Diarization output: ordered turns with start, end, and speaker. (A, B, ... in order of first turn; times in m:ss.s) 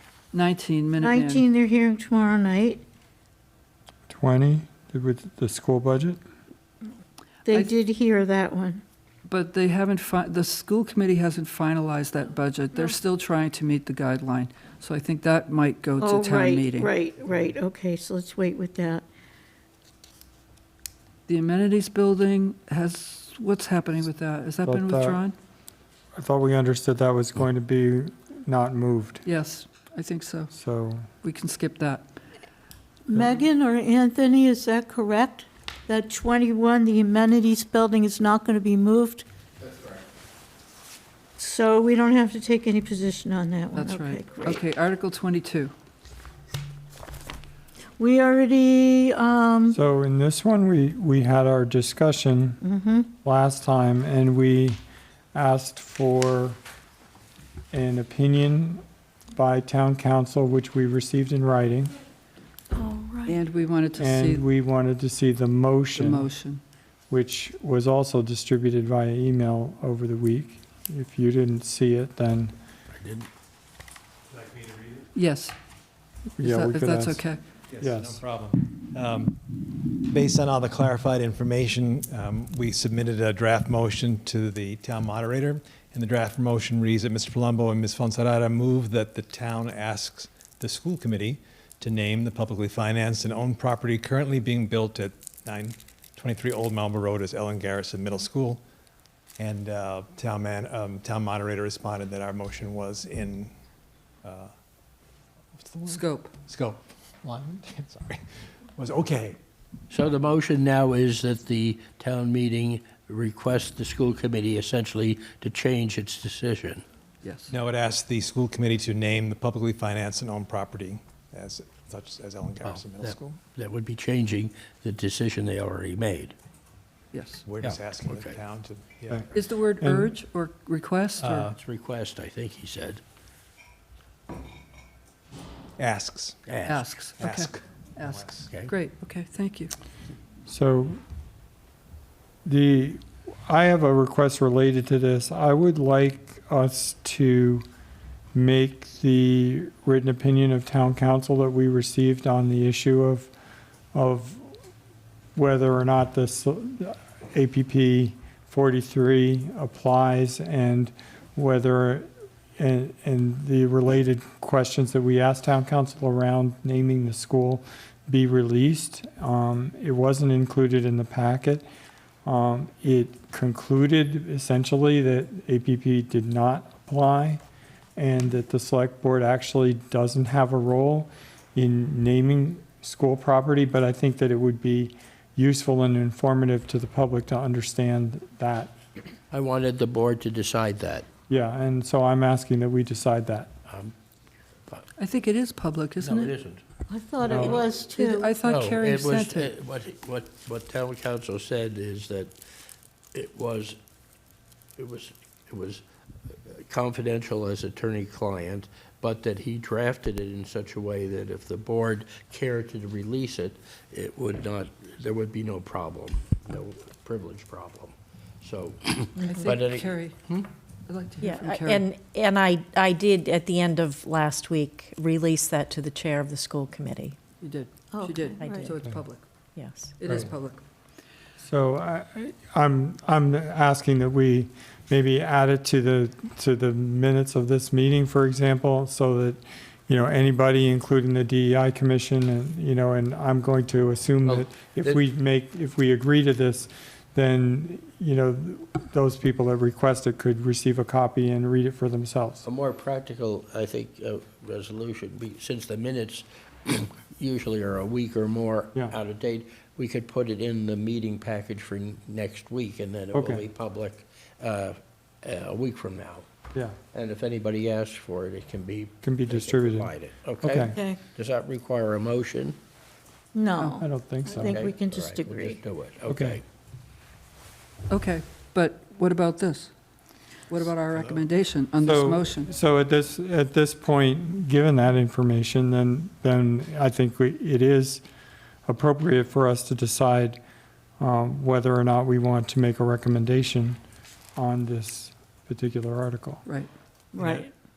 0:00.3-0:01.4 A
0:01.0-0:02.8 B
0:04.1-0:06.2 C
0:07.4-0:08.8 B
0:09.2-0:16.9 A
0:16.0-0:19.0 B
0:21.3-0:25.3 A
0:24.6-0:25.2 C
0:26.2-0:29.2 C
0:29.2-0:30.5 A
0:30.5-0:31.1 C
0:31.2-0:32.0 A
0:33.1-0:39.2 B
0:41.4-0:44.6 B
0:43.7-0:45.7 A
0:48.0-0:49.8 B
0:49.7-0:52.6 C
0:52.6-0:53.1 B
0:53.2-0:54.8 C
0:55.3-0:56.6 C
0:57.7-0:58.8 C
0:59.3-1:01.9 C
1:02.7-1:03.4 B
1:03.3-1:04.4 A
1:04.0-1:06.2 C
1:06.0-1:06.6 A
1:07.1-1:12.5 C
1:12.9-1:13.3 D
1:14.3-1:15.1 E
1:15.1-1:15.5 A
1:16.4-1:17.2 C
1:16.4-1:17.4 A
1:17.7-1:38.6 E
1:17.8-1:18.2 C
1:39.4-1:43.5 E
1:44.2-1:44.5 E
1:45.6-1:48.2 E
1:45.9-1:46.3 A
1:48.8-1:49.4 E
1:49.9-1:56.8 D
1:57.2-1:57.5 A
1:57.5-2:03.4 E
2:02.6-2:06.3 D
2:07.1-2:07.4 A
2:07.4-2:09.4 E
2:07.6-2:08.4 D
2:09.3-2:11.5 A
2:09.8-2:10.1 C
2:11.2-2:11.5 E
2:11.5-2:13.0 D
2:15.8-2:16.4 E
2:16.5-2:16.9 D
2:16.6-2:19.7 A
2:17.2-2:18.5 E
2:20.5-2:21.0 C
2:22.4-2:27.6 C
2:28.3-2:33.3 C
2:33.9-2:34.5 C
2:35.3-2:51.6 C
2:52.2-2:57.4 C
2:58.0-3:08.7 C
3:09.3-3:11.1 D
3:11.3-3:13.5 C
3:13.7-3:13.9 D
3:15.0-3:16.3 A
3:16.0-3:16.6 D
3:16.9-3:18.3 B
3:17.2-3:17.6 C
3:17.9-3:19.5 A
3:18.4-3:22.3 D
3:23.1-3:23.8 D
3:24.8-3:40.5 D
3:39.2-3:40.2 A
3:40.9-3:41.9 A
3:41.2-3:47.2 F
3:47.4-3:49.2 A
3:47.9-3:48.7 B
3:48.4-3:48.9 F
3:49.6-3:50.0 F
3:50.0-3:50.6 A
3:51.4-4:12.4 C
4:04.2-4:05.0 D
4:12.4-4:26.2 D
4:23.1-4:23.4 C
4:26.9-4:32.6 D
4:29.0-4:29.9 C
4:30.4-4:30.7 C
4:30.7-4:31.0 B
4:33.3-4:35.6 B
4:33.8-4:34.6 C
4:34.4-4:36.4 D
4:36.1-4:36.4 C
4:37.9-4:39.7 A
4:40.5-4:42.5 A
4:41.8-4:48.0 C
4:48.6-4:50.4 C
4:51.0-4:53.8 C
4:54.4-4:56.4 C
4:57.1-4:57.5 B
4:57.2-4:57.5 E